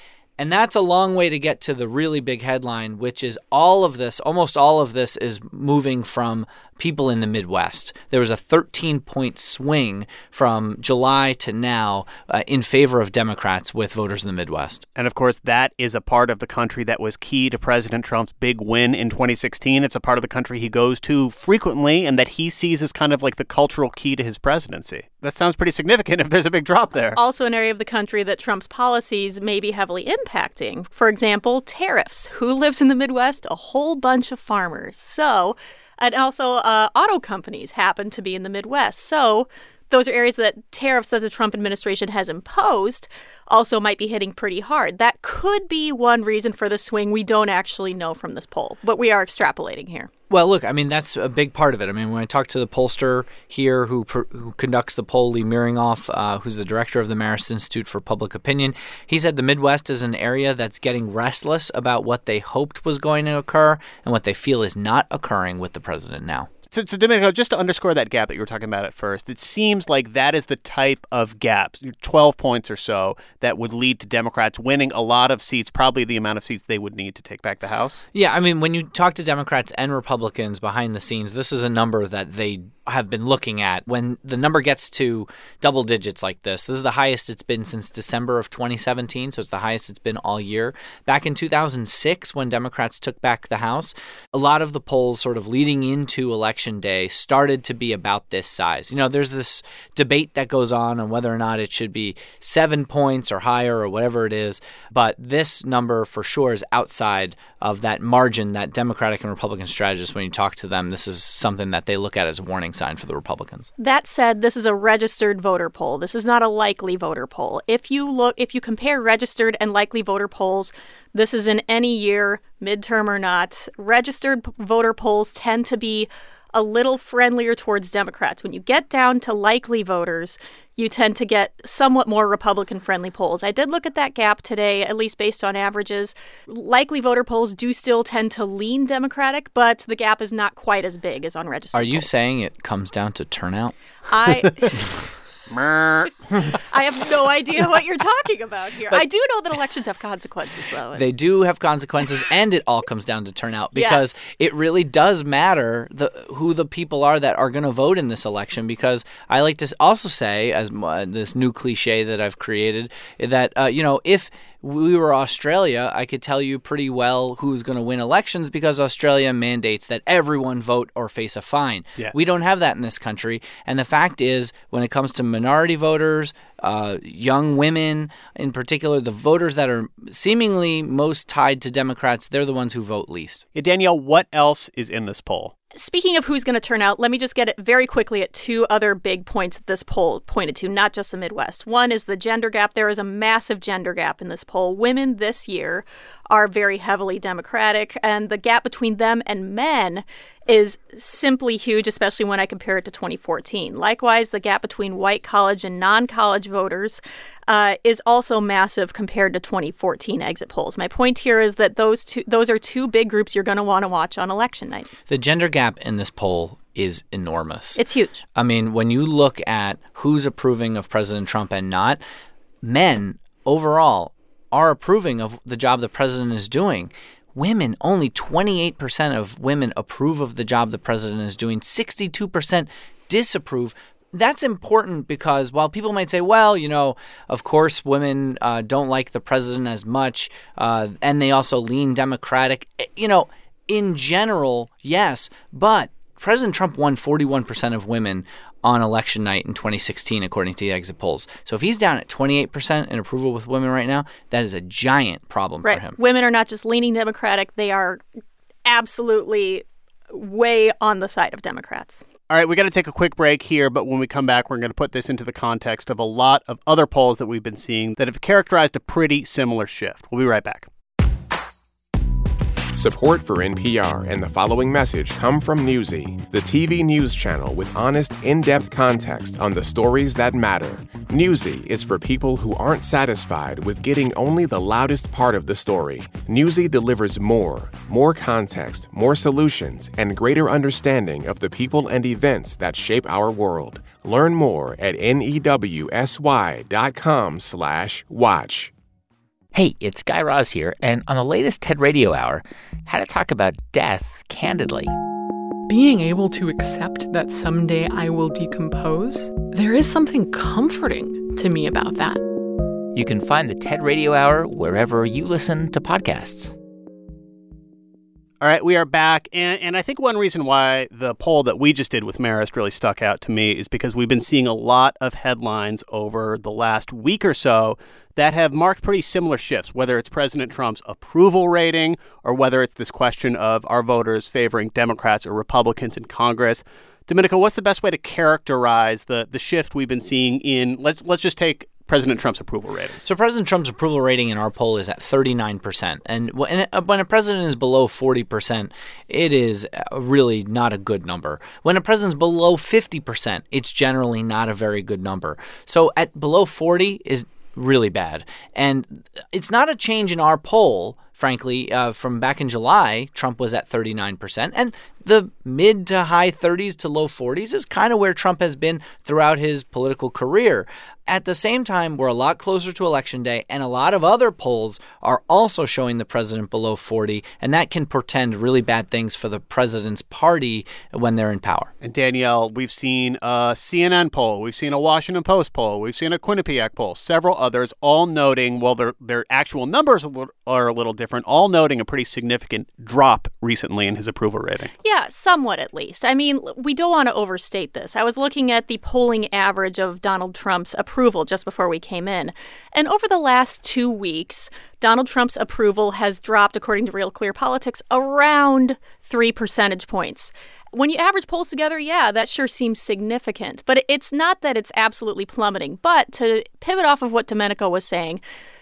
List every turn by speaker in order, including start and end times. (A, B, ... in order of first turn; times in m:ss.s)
0:00.4-0:14.8 A
0:15.0-0:27.2 B
0:27.2-0:50.1 C
0:50.3-1:06.5 A
1:06.7-1:18.0 B
1:18.1-1:53.7 A
1:53.8-2:22.2 C
2:21.7-2:23.8 A
2:24.1-2:25.1 C
2:25.5-2:26.2 B
2:26.5-2:31.0 C
2:30.9-3:03.4 A
2:33.7-2:34.2 C
3:03.6-3:05.5 B
3:05.7-3:34.9 C
3:35.1-3:37.8 A
3:37.8-3:38.2 C
3:38.4-3:42.0 A
3:42.6-4:16.0 A
4:15.6-4:18.0 C
4:18.6-4:22.0 C
4:22.3-4:30.7 B
4:32.7-4:58.7 D
4:59.5-5:04.9 E
5:05.7-5:12.2 F
5:13.0-5:16.5 E
5:18.4-5:43.0 B
5:43.0-6:21.7 A
6:21.8-6:34.7 B
6:34.8-6:58.2 C